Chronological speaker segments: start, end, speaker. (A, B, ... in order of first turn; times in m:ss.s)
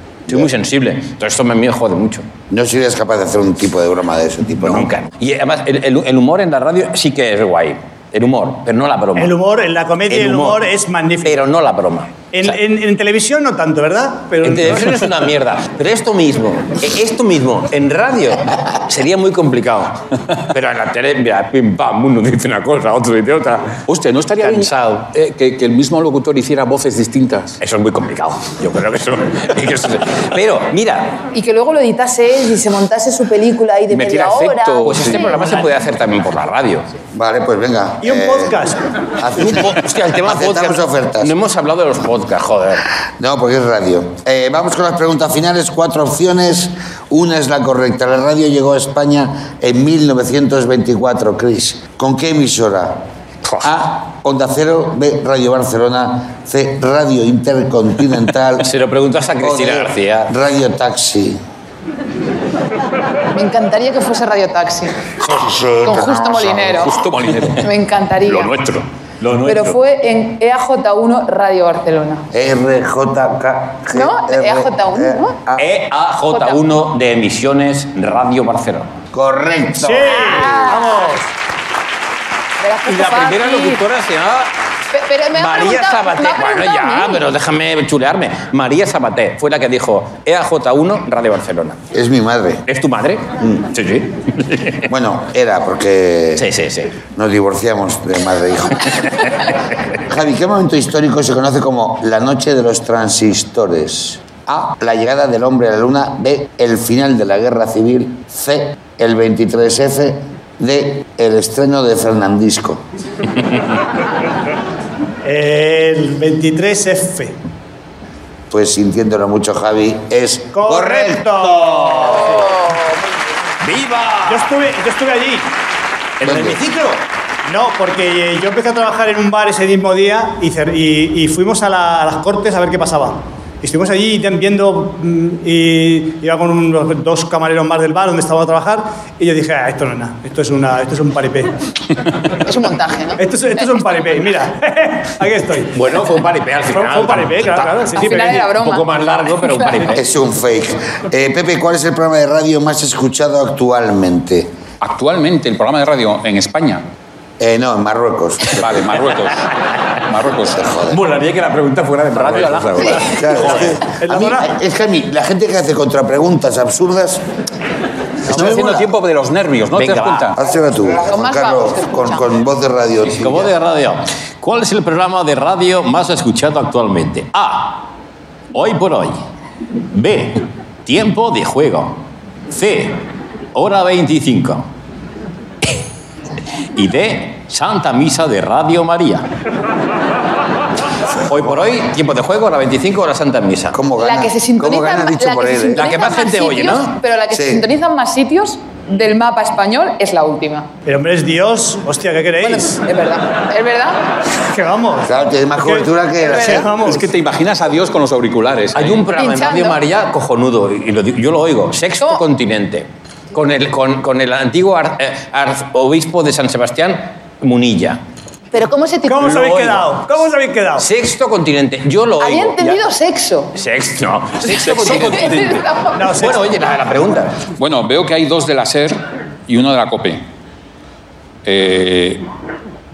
0:00.3-0:02.2 A
0:02.5-0:04.9 B
0:04.6-0:09.3 A
0:09.2-0:11.4 C
0:10.1-0:10.6 A
0:11.2-0:12.6 A
0:12.3-0:15.0 C
0:14.4-0:23.8 A
0:23.9-0:27.6 D
0:24.4-0:25.0 A
0:27.6-0:31.2 A
0:31.3-0:35.6 E
0:33.9-0:35.6 D
0:34.8-0:36.8 A
0:37.1-0:41.3 B
0:38.0-0:38.8 C
0:39.4-0:42.9 A
0:43.2-0:53.0 B
0:53.6-0:58.7 B
0:58.6-1:00.3 A
0:59.4-1:01.4 B
1:03.3-1:05.0 E
1:05.3-1:06.2 B
1:05.8-1:06.9 E
1:06.3-1:07.7 D
1:07.6-1:08.5 E
1:08.3-1:09.8 A
1:09.4-1:12.2 E
1:12.3-1:15.7 B
1:13.9-1:15.4 E
1:15.6-1:18.9 A
1:16.3-1:16.6 E
1:19.1-1:20.6 B
1:19.8-1:21.2 C
1:20.1-1:21.2 E
1:22.6-1:23.8 E
1:22.8-1:24.5 A
1:24.9-1:27.2 E
1:25.3-1:31.8 A
1:31.9-1:32.6 B
1:32.6-1:34.9 A
1:34.9-1:36.5 B
1:36.4-1:37.0 A
1:37.1-1:39.0 B
1:38.9-1:39.5 A
1:40.1-1:52.8 B
1:55.2-1:57.3 C
1:58.5-2:01.6 B
2:00.5-2:02.5 C
2:01.4-2:02.4 A
2:03.6-2:04.6 A
2:04.3-2:05.5 C
2:06.2-2:06.6 B
2:06.2-2:06.8 A
2:06.3-2:21.5 C
2:22.4-2:23.9 E
2:23.2-2:25.7 C
2:25.7-2:30.1 A
2:26.7-2:28.5 C
2:27.9-2:29.8 E
2:29.9-2:34.5 B
2:34.8-2:36.8 D
2:37.4-2:38.6 B
2:38.5-2:39.5 D
2:40.0-2:40.6 D
2:40.5-2:41.0 B
2:40.9-2:43.6 A
2:42.2-2:43.2 D
2:42.9-2:47.2 B
2:43.4-2:44.5 C
2:48.3-2:50.4 D
2:48.3-2:48.8 B
2:49.8-2:50.3 A
2:50.3-2:53.5 B
2:51.0-2:52.3 E
2:53.0-2:57.9 A
2:58.5-2:59.2 A
2:59.9-3:03.0 A
3:03.5-3:04.7 A
3:06.7-3:09.3 A
3:11.2-3:13.8 A
3:13.7-3:15.9 B
3:14.0-3:20.7 E
3:15.8-3:17.0 A
3:17.3-3:17.6 B
3:20.8-3:22.8 C
3:22.4-3:24.0 E
3:24.5-3:27.0 C
3:25.0-3:26.7 B
3:26.2-3:26.6 E
3:26.7-3:29.0 D
3:28.7-3:38.0 A
3:29.2-3:29.8 E
3:38.5-3:39.4 E
3:39.0-3:40.9 C
3:39.2-3:39.9 A
3:40.8-3:42.8 A
3:42.2-3:43.5 E
3:43.5-3:47.4 A
3:44.5-3:45.6 D
3:44.8-3:46.2 E
3:45.9-3:46.5 C
3:47.6-3:49.0 D
3:49.5-3:50.2 D
3:51.4-3:52.2 D